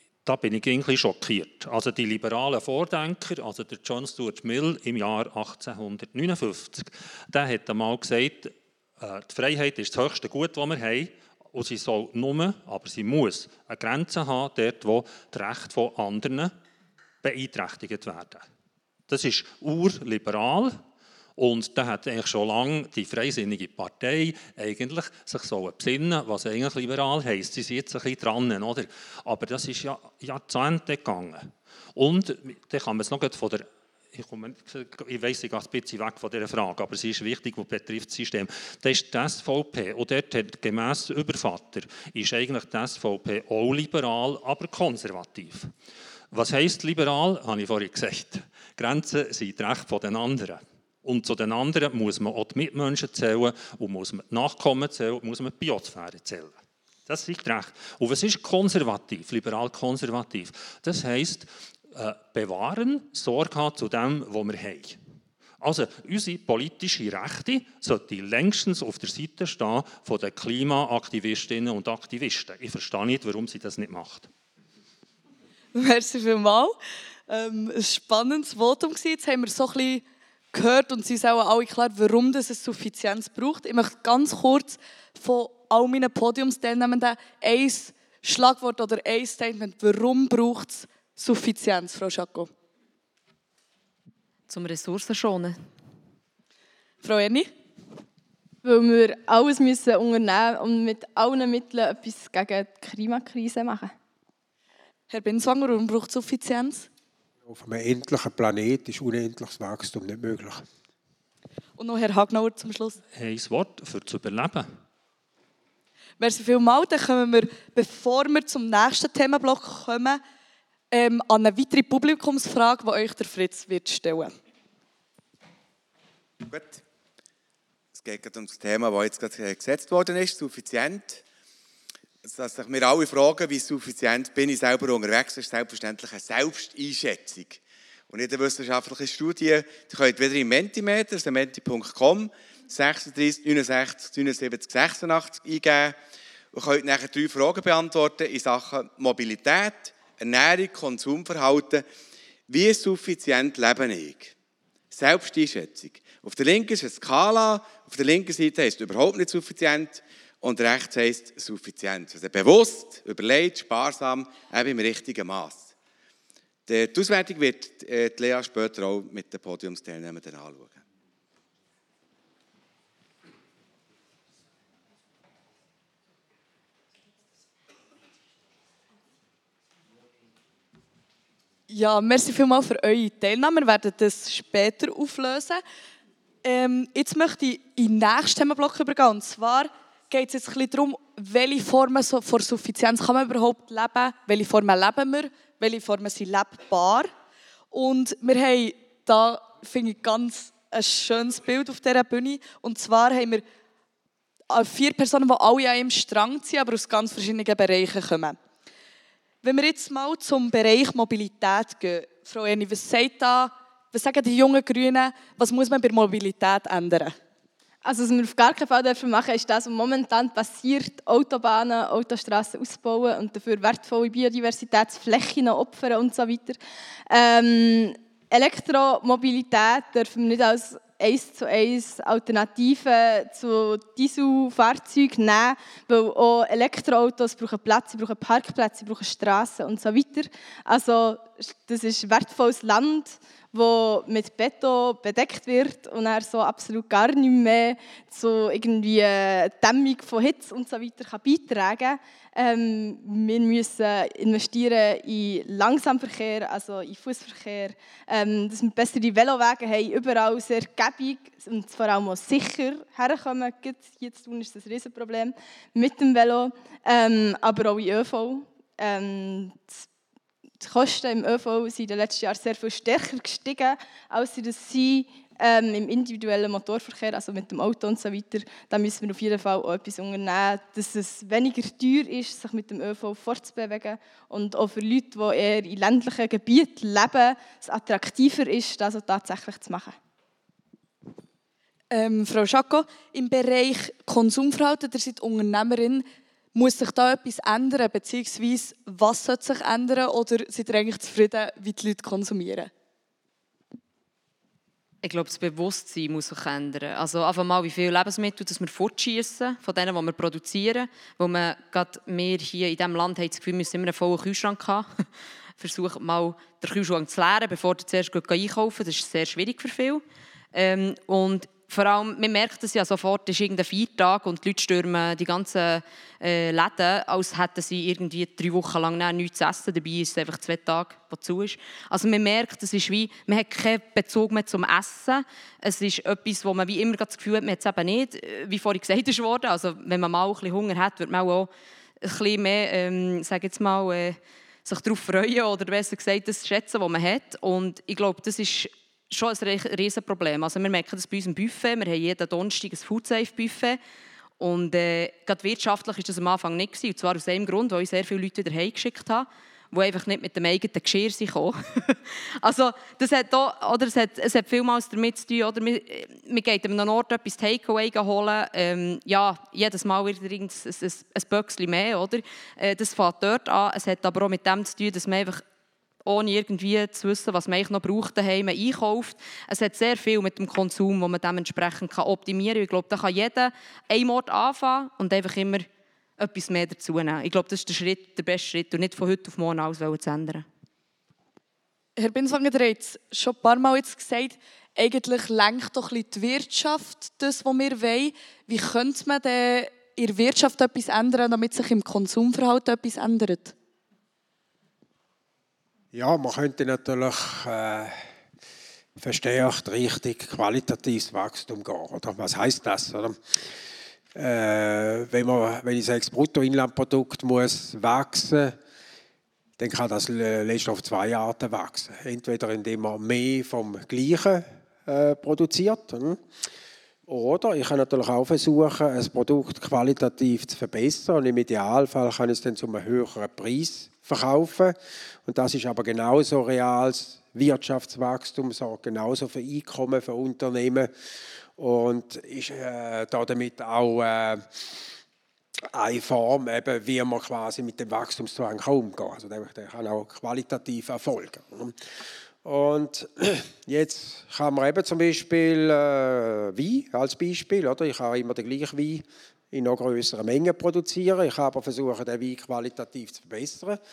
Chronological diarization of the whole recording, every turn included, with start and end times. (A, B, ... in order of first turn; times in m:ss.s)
0:00.2-0:16.5 A
0:17.2-0:18.4 A
0:19.1-0:20.8 A
0:21.4-0:45.7 A
0:46.3-0:56.6 A
0:57.1-1:05.0 A
1:05.6-1:14.3 A
1:15.7-1:16.8 B
1:17.3-1:32.5 B
1:34.5-1:35.6 C
1:37.0-1:37.5 B
1:38.6-1:43.9 D
1:45.1-1:46.9 B
1:47.5-1:50.6 E
1:51.8-1:53.0 B
1:53.1-1:54.7 A
1:56.2-2:00.2 B
2:00.9-2:04.3 B
2:06.4-2:06.8 F
2:07.9-2:11.2 F
2:12.2-2:26.0 F
2:26.5-2:31.8 F
2:32.5-2:34.3 F
2:34.9-2:45.7 F
2:46.7-2:50.8 F
3:01.7-3:05.6 B
3:06.4-3:17.1 B
3:17.7-3:23.4 B
3:24.5-3:28.4 B
3:29.4-3:37.2 B
3:37.8-3:46.6 D
3:47.1-4:29.8 D
4:30.6-4:50.0 D
4:51.9-4:56.0 B
4:56.6-5:02.7 B
5:05.0-5:15.0 C
5:15.6-5:53.8 C
5:54.4-6:15.4 C
6:16.0-6:25.7 C
6:26.2-6:30.4 C
6:32.0-6:43.5 B
6:45.9-6:48.0 E
6:49.0-6:53.2 E
6:54.2-6:58.6 E
6:59.6-7:06.2 E
7:07.1-7:20.9 E
7:21.6-7:24.4 E
7:25.7-7:31.8 E
7:32.4-7:43.8 E